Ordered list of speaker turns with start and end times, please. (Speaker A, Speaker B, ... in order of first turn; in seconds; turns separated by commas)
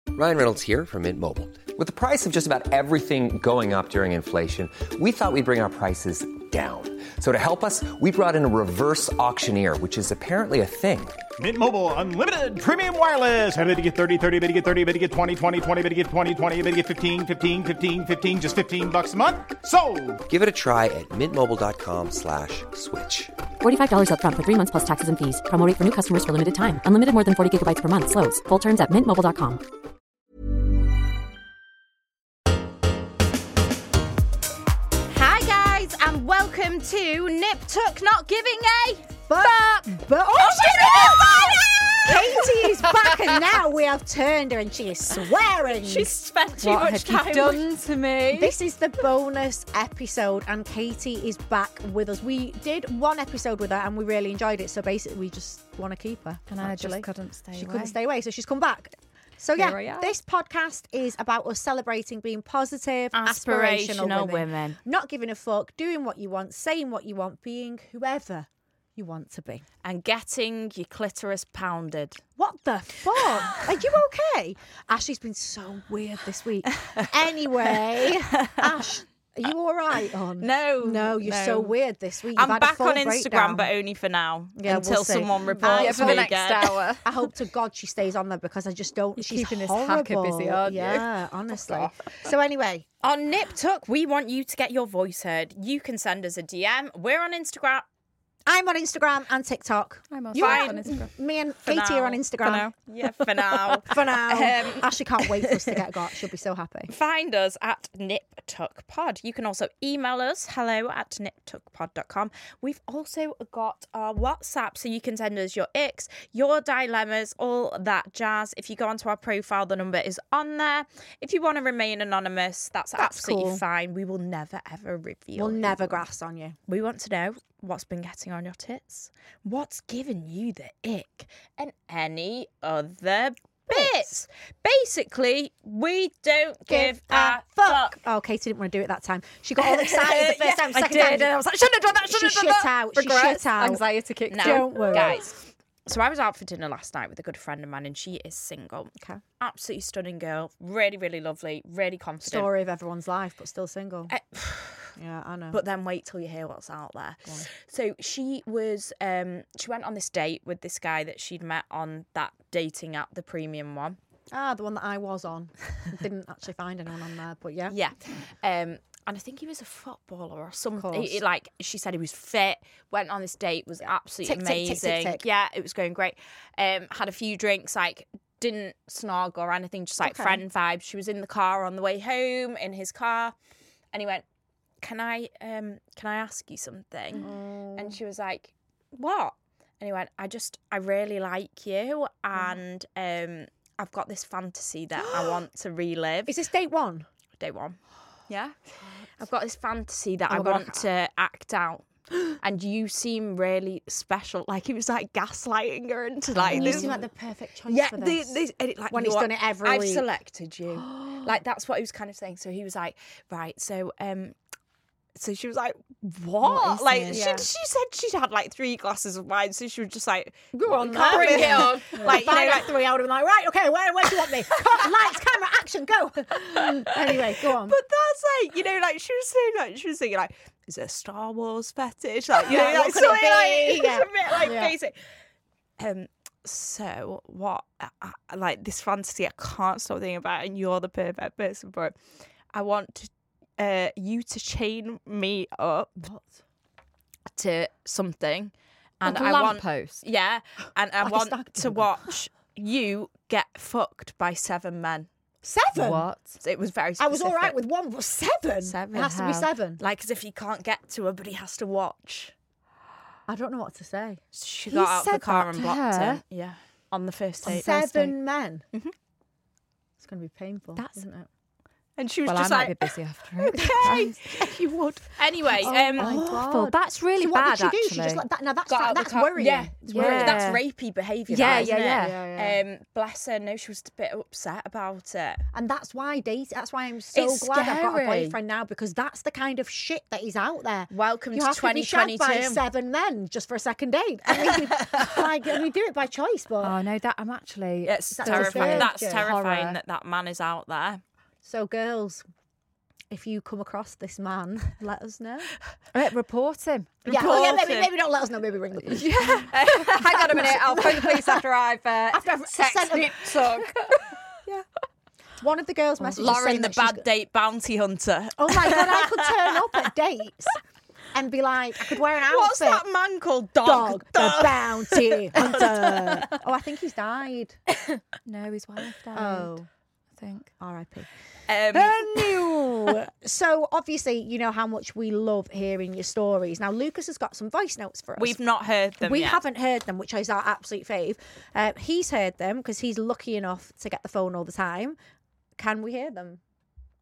Speaker A: 0.1-11.2, Speaker B: 11.4-20.2, Speaker A: 20.3-23.3, Speaker C: 23.6-29.6, Speaker D: 35.1-43.2, Speaker E: 39.3-46.1, Speaker D: 45.7-47.6, Speaker F: 46.6-48.5, Speaker E: 48.3-69.6, Speaker F: 56.5-57.9, Speaker F: 59.5-60.1, Speaker D: 63.1-64.8, Speaker D: 69.8-72.2, Speaker E: 72.4-83.7, Speaker D: 77.6-79.0, Speaker D: 80.4-81.7, Speaker D: 82.3-86.8, Speaker E: 84.6-86.3, Speaker F: 85.6-87.1, Speaker E: 87.0-92.8, Speaker F: 89.2-91.0, Speaker D: 91.5-91.9, Speaker D: 93.0-97.8, Speaker E: 98.5-102.7, Speaker F: 100.1-101.1, Speaker D: 100.4-101.0, Speaker D: 101.7-105.8, Speaker E: 103.9-106.9, Speaker D: 106.9-126.0, Speaker E: 123.0-123.6, Speaker E: 125.3-126.6, Speaker D: 126.7-138.0, Speaker E: 133.7-134.1, Speaker E: 136.7-143.8, Speaker D: 139.6-142.7, Speaker F: 142.9-145.1, Speaker D: 144.3-152.5, Speaker E: 144.4-145.3, Speaker E: 152.2-154.1, Speaker D: 154.1-154.9, Speaker E: 155.0-155.6, Speaker D: 155.5-164.0, Speaker E: 164.3-167.7, Speaker D: 167.7-183.3, Speaker E: 170.8-171.2, Speaker E: 174.2-175.2, Speaker E: 180.0-180.4, Speaker D: 183.9-184.2, Speaker D: 184.8-196.3, Speaker E: 187.2-188.0, Speaker E: 195.0-195.4, Speaker E: 196.2-197.1, Speaker D: 197.4-197.8, Speaker D: 199.2-201.8, Speaker E: 200.3-200.8, Speaker D: 202.4-207.0, Speaker E: 206.3-208.4, Speaker F: 206.5-206.9, Speaker D: 207.7-214.3, Speaker E: 208.9-210.0, Speaker D: 215.2-222.7, Speaker F: 216.4-217.4, Speaker E: 217.0-217.5, Speaker E: 220.5-227.8, Speaker F: 221.1-222.4, Speaker D: 226.4-234.9, Speaker E: 232.3-234.7, Speaker D: 235.8-241.9, Speaker D: 242.5-246.1, Speaker E: 246.0-246.4, Speaker D: 247.3-255.1, Speaker F: 249.0-250.0, Speaker E: 251.0-251.9, Speaker E: 255.4-256.1, Speaker F: 255.7-256.4, Speaker D: 256.4-257.6, Speaker E: 257.0-259.8, Speaker D: 258.6-259.1, Speaker F: 258.9-259.5, Speaker D: 259.8-262.3, Speaker E: 263.3-265.5, Speaker D: 264.3-268.1, Speaker F: 265.6-266.2, Speaker E: 267.4-268.6, Speaker F: 267.4-268.1, Speaker E: 270.0-271.3, Speaker F: 270.8-271.0, Speaker D: 272.0-272.9, Speaker F: 272.2-274.2, Speaker D: 273.5-274.4, Speaker E: 273.5-280.5, Speaker D: 275.2-276.2, Speaker F: 275.6-278.2, Speaker D: 278.7-285.4, Speaker F: 279.9-280.6, Speaker F: 281.3-282.2, Speaker E: 281.4-282.6, Speaker E: 285.5-296.7, Speaker D: 287.1-288.4, Speaker D: 290.9-292.6, Speaker D: 294.4-295.2, Speaker F: 296.6-298.9, Speaker D: 297.8-301.0, Speaker E: 298.1-299.8, Speaker E: 301.4-302.2, Speaker E: 303.1-305.5, Speaker F: 305.9-307.0, Speaker D: 307.0-307.9, Speaker E: 307.1-309.4, Speaker F: 308.8-313.4, Speaker D: 309.5-310.6, Speaker E: 310.1-311.3, Speaker E: 312.2-313.6, Speaker D: 312.5-313.7, Speaker E: 315.4-317.0, Speaker D: 316.1-319.5, Speaker E: 318.4-320.6, Speaker E: 321.1-322.8, Speaker D: 321.9-326.3, Speaker E: 323.6-327.6, Speaker F: 328.2-329.6, Speaker E: 329.1-329.6, Speaker F: 330.2-330.5, Speaker E: 330.6-331.1, Speaker D: 331.5-332.5, Speaker E: 331.7-338.4, Speaker D: 338.2-339.4, Speaker E: 339.0-345.0, Speaker E: 345.6-346.4